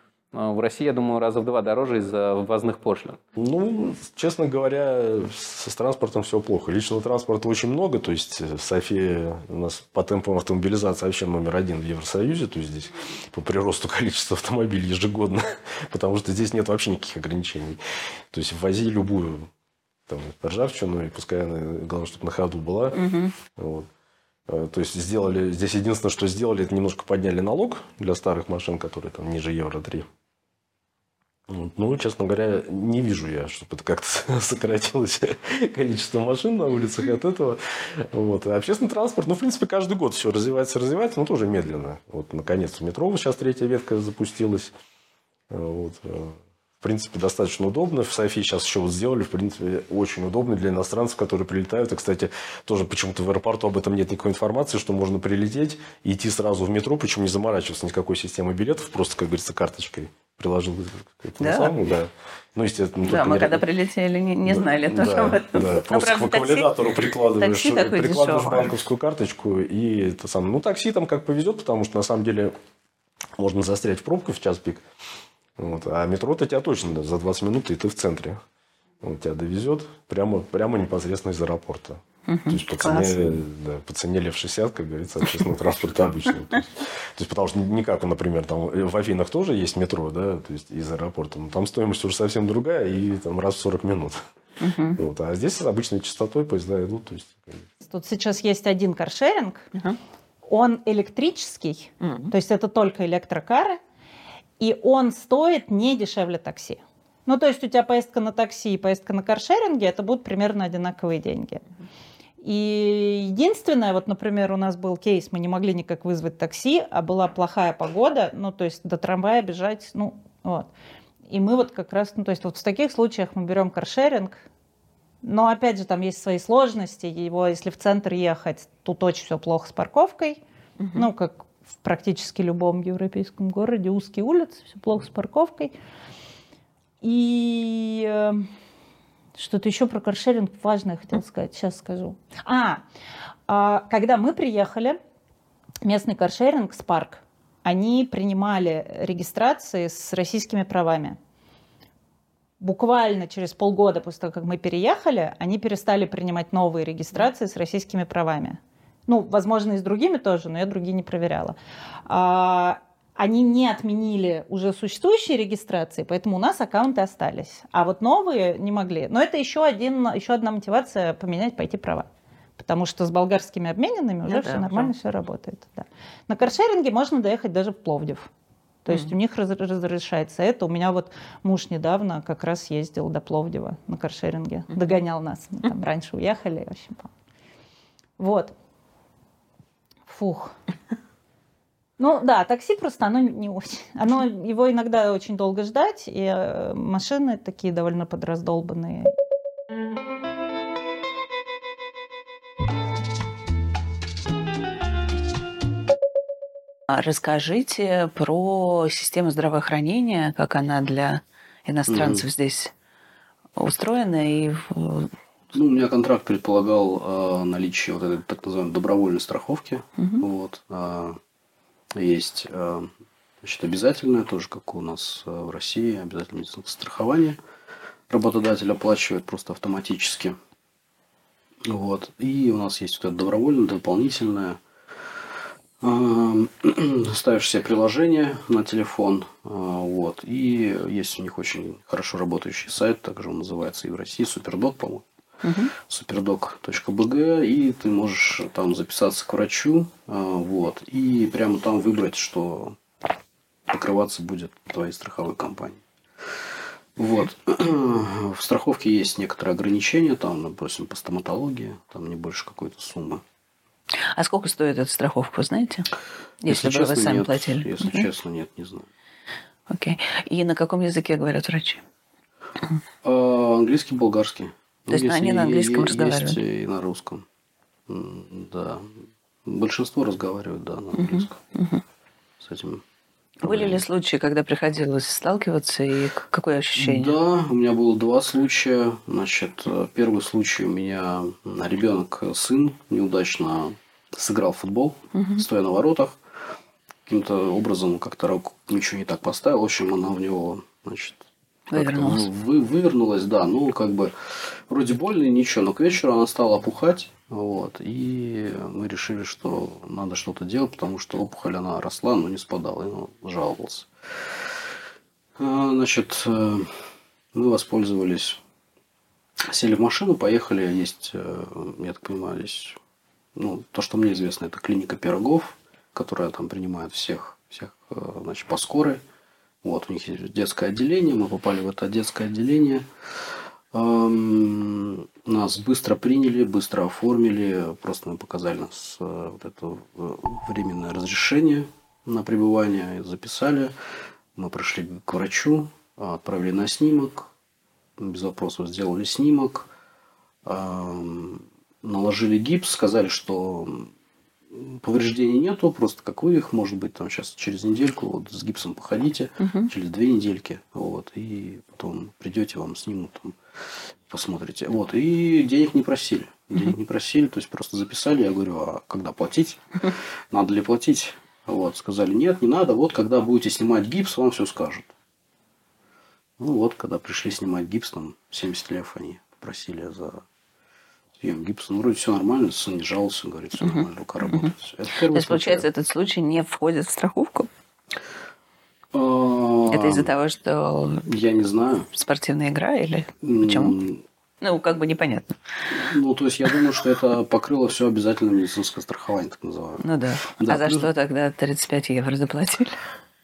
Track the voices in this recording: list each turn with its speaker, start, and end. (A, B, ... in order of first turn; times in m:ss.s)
0:00.3-0:03.2 A
0:03.4-0:17.8 B
0:18.3-0:19.5 B
0:20.1-0:23.0 B
0:23.0-0:23.3 C
0:23.6-0:23.9 B
0:24.5-0:30.1 B
0:31.5-0:44.7 B
0:45.5-1:03.6 B
1:01.4-1:01.8 C
1:03.1-1:06.7 C
1:04.5-1:12.5 B
1:07.4-1:08.7 C
1:13.4-1:14.8 B
1:15.6-1:18.4 B
1:19.0-1:34.2 B
1:22.3-1:23.4 C
1:34.6-1:35.0 C
1:35.0-1:37.7 B
1:37.9-1:39.7 D
1:40.5-1:43.8 D
1:42.0-1:42.3 C
1:44.6-1:51.6 D
1:52.4-2:00.7 D
2:01.3-2:04.4 D
2:05.2-2:10.4 D
2:10.8-2:11.1 C
2:11.0-2:15.7 D
2:17.0-2:18.5 D
2:19.4-2:22.8 D
2:23.5-2:25.0 D
2:25.8-2:31.2 D
2:32.6-2:58.3 D
2:54.3-2:54.9 C
2:58.8-3:07.1 D
3:08.2-3:08.5 D
3:10.1-3:10.5 D
3:12.0-3:19.1 D
3:26.9-3:32.7 C
3:31.9-3:32.2 E
3:33.6-3:35.1 C
3:35.5-3:41.2 E
3:40.0-3:40.2 C
3:42.0-3:42.9 E
3:43.4-3:47.4 E
3:48.1-3:50.4 E
3:51.7-3:54.6 E
3:55.8-4:05.0 E
4:05.4-4:05.7 C
4:05.8-4:12.8 E
4:13.7-4:15.8 E
4:17.0-4:23.2 E
4:24.1-4:25.9 C
4:26.4-4:28.1 C
4:26.5-4:28.9 E
4:29.7-4:31.8 C
4:33.0-4:37.2 E
4:34.9-4:36.4 C
4:37.9-4:38.9 E
4:39.4-4:41.4 E
4:41.0-4:41.8 C
4:42.4-4:42.8 E
4:43.4-4:43.8 E
4:43.4-4:47.2 C
4:46.8-4:56.2 E
4:55.1-4:55.4 C
4:57.1-5:01.2 E
5:01.7-5:02.3 C
5:01.7-5:04.1 E
5:04.7-5:13.9 E
5:15.4-5:16.7 E
5:17.3-5:18.4 E
5:19.5-5:22.8 E
5:23.4-5:29.0 E
5:29.6-5:32.9 E
5:33.7-5:43.7 E
5:44.4-5:47.3 E
5:48.0-5:49.7 E
5:50.4-5:53.9 E
5:54.5-6:03.4 E
5:59.4-5:59.7 C
6:04.1-6:14.9 E
6:16.4-6:20.2 E
6:21.2-6:25.7 E
6:23.6-6:24.5 C
6:25.1-6:27.5 C
6:28.9-6:30.1 E
6:29.7-6:31.1 C
6:31.1-6:31.9 E
6:31.9-6:33.8 C
6:33.2-6:34.0 E
6:34.4-6:35.4 C
6:35.7-6:39.8 E
6:39.8-6:42.8 C
6:40.4-6:40.9 E